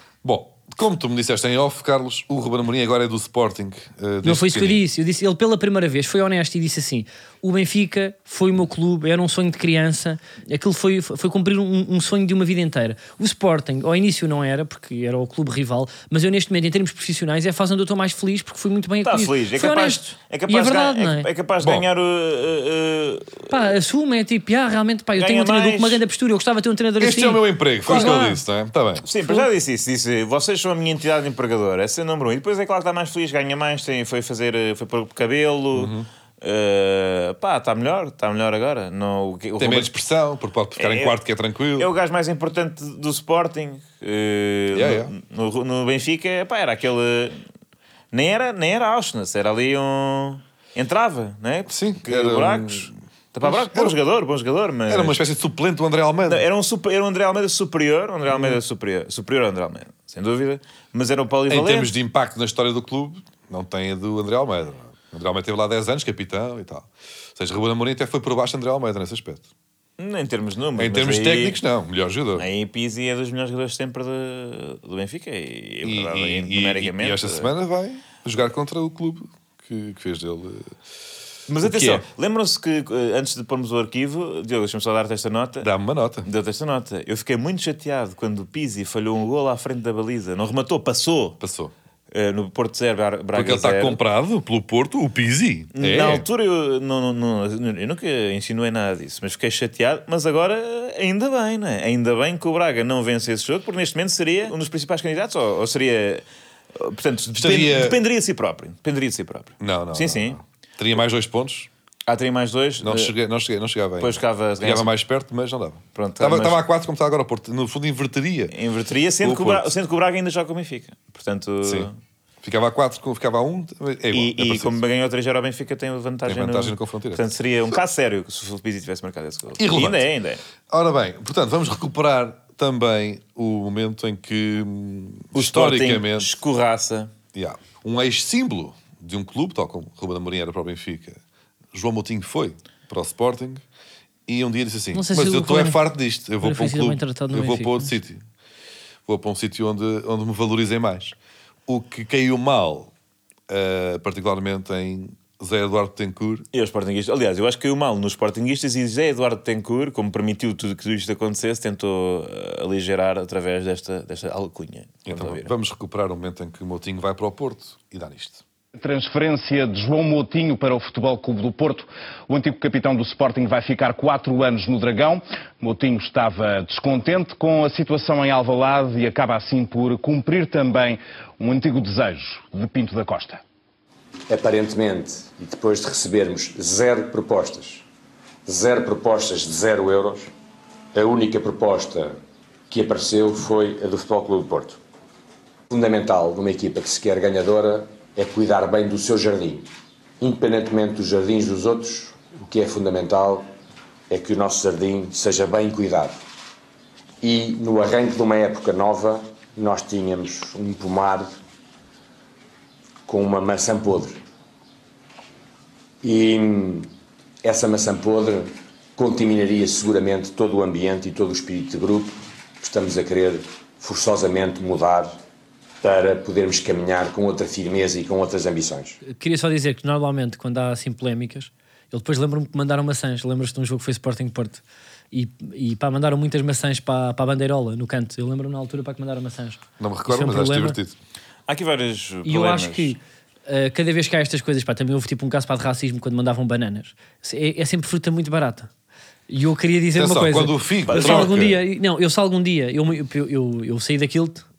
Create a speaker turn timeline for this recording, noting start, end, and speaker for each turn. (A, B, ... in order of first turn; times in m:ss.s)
0:00.2-0:04.8 A
0:04.2-0:21.3 B
0:19.0-0:23.5 C
0:21.6-0:21.9 A
0:23.5-0:28.4 B
0:25.2-0:26.0 C
0:27.0-0:29.0 A
0:29.0-0:39.9 C
0:35.7-0:36.0 A
0:39.6-0:41.9 A
0:40.8-0:41.1 C
0:41.8-0:47.4 C
0:44.7-0:45.1 A
0:48.1-0:55.2 C
0:51.7-0:54.0 A
0:54.9-0:56.4 A
0:56.3-1:01.9 C
1:01.5-1:09.4 A
1:10.0-1:11.6 C
1:10.8-1:12.4 A
1:12.4-1:17.5 C
1:15.8-1:20.7 A
1:21.5-1:25.7 C
1:21.6-1:22.0 A
1:25.6-1:26.3 A
1:26.2-1:31.4 C
1:31.4-1:31.7 A
1:32.1-1:34.0 C
1:33.3-1:36.2 A
1:35.7-1:46.2 C
1:46.7-1:50.4 C
1:47.3-1:48.0 A
1:49.6-1:51.7 A
1:52.1-1:53.1 C
1:52.8-1:58.5 A
1:54.0-1:54.9 C
1:55.9-1:56.6 C
1:58.5-2:01.9 C
1:59.2-1:59.7 A
2:02.4-2:04.8 A
2:04.1-2:10.4 C
2:06.3-2:07.8 A
2:09.6-2:10.0 A
2:10.7-2:16.3 A
2:15.3-2:17.1 C
2:17.3-2:21.2 A
2:21.7-2:23.6 A
2:24.3-2:28.2 A
2:24.9-2:25.8 B
2:26.4-2:28.0 B
2:29.0-2:31.1 A
2:31.7-2:32.9 A
2:33.5-2:36.4 A
2:36.5-2:45.5 C
2:45.1-2:48.4 A
2:48.8-3:03.4 D
3:04.3-3:07.8 E
3:08.4-3:10.3 E
3:10.9-3:12.1 E
3:12.7-3:14.8 E
3:15.7-3:19.6 E
3:20.2-3:23.5 E
3:24.1-3:26.2 E
3:27.2-3:31.3 E
3:33.1-3:34.2 E
3:36.0-3:36.9 E
3:37.4-3:45.2 E
3:45.8-3:49.0 E
3:49.0-4:00.8 B
3:59.8-4:00.9 A
4:01.5-4:02.9 C
4:02.2-4:08.7 B
4:09.3-4:14.4 B
4:09.9-4:11.6 A
4:10.9-4:11.4 C